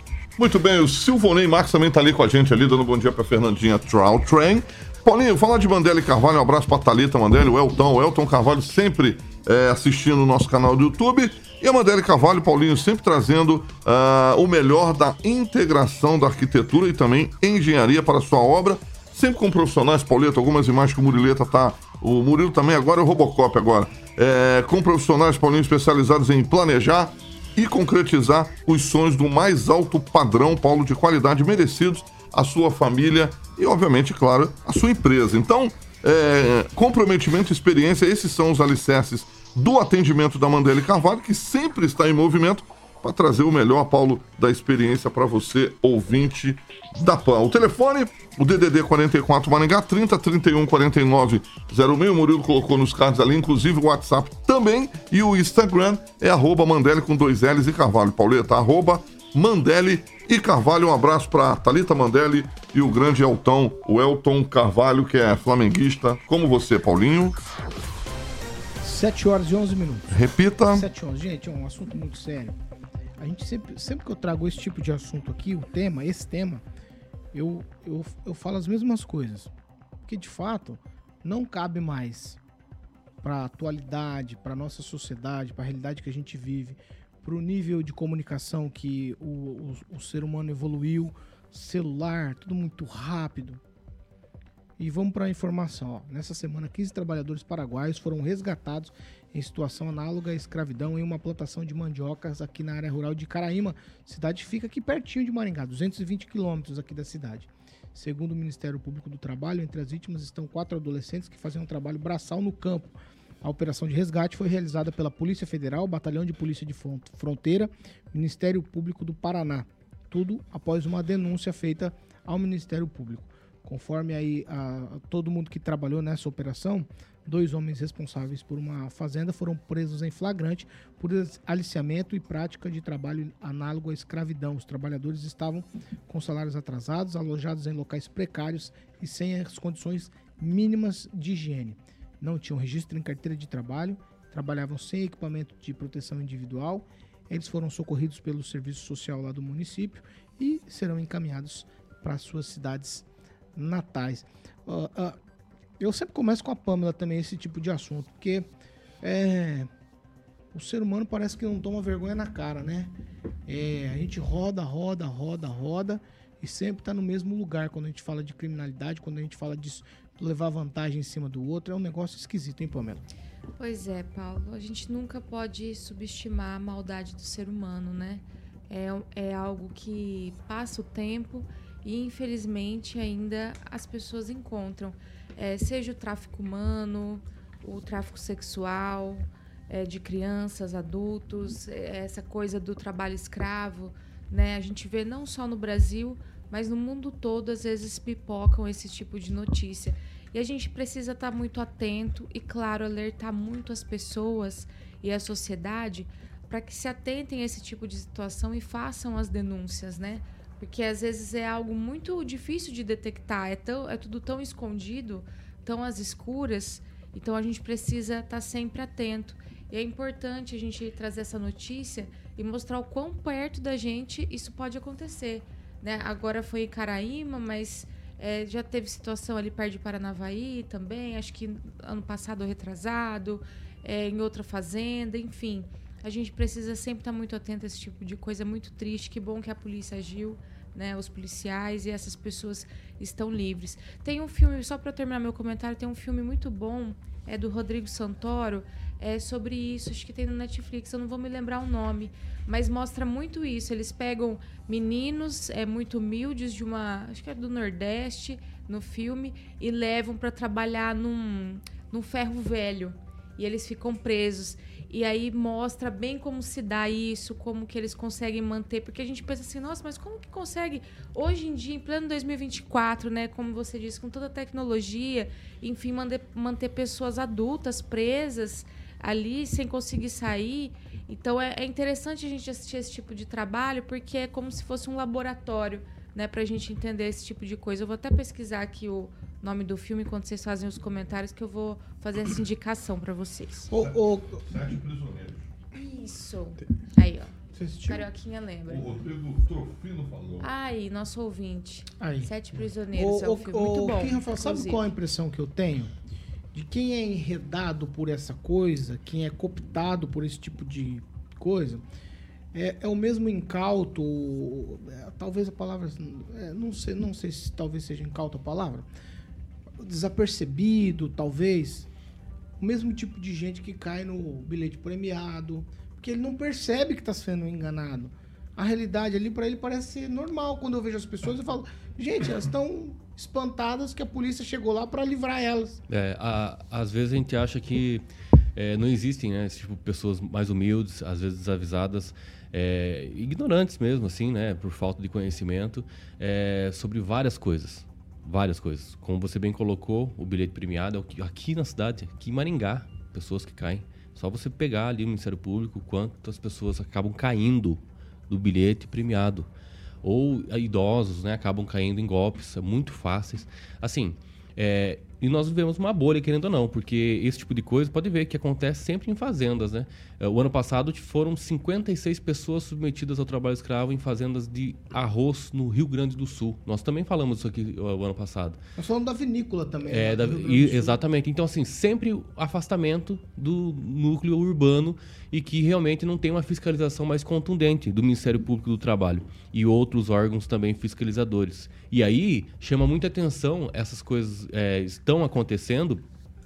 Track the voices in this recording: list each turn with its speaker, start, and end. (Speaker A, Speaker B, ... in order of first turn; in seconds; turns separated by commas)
Speaker A: 0.4-67.4, Speaker B: 68.8-72.5, Speaker A: 70.1-70.8, Speaker B: 73.2-76.6, Speaker B: 77.3-79.5, Speaker B: 80.0-82.4, Speaker B: 83.2-93.6, Speaker B: 94.8-155.2, Speaker B: 155.8-158.4, Speaker B: 159.0-159.7, Speaker B: 160.5-162.9, Speaker B: 163.5-173.0, Speaker C: 173.6-293.7, Speaker B: 293.7-294.4, Speaker A: 294.4-295.5, Speaker C: 295.7-299.0, Speaker B: 297.6-298.1, Speaker A: 298.6-300.5, Speaker C: 300.4-304.9, Speaker B: 302.0-302.3, Speaker B: 302.9-305.9, Speaker B: 306.5-311.8, Speaker B: 312.5-318.8, Speaker B: 319.8-321.9, Speaker B: 322.6-335.8, Speaker D: 335.9-338.0, Speaker D: 338.5-359.5, Speaker D: 360.0-378.6, Speaker B: 378.8-381.0, Speaker D: 379.9-396.0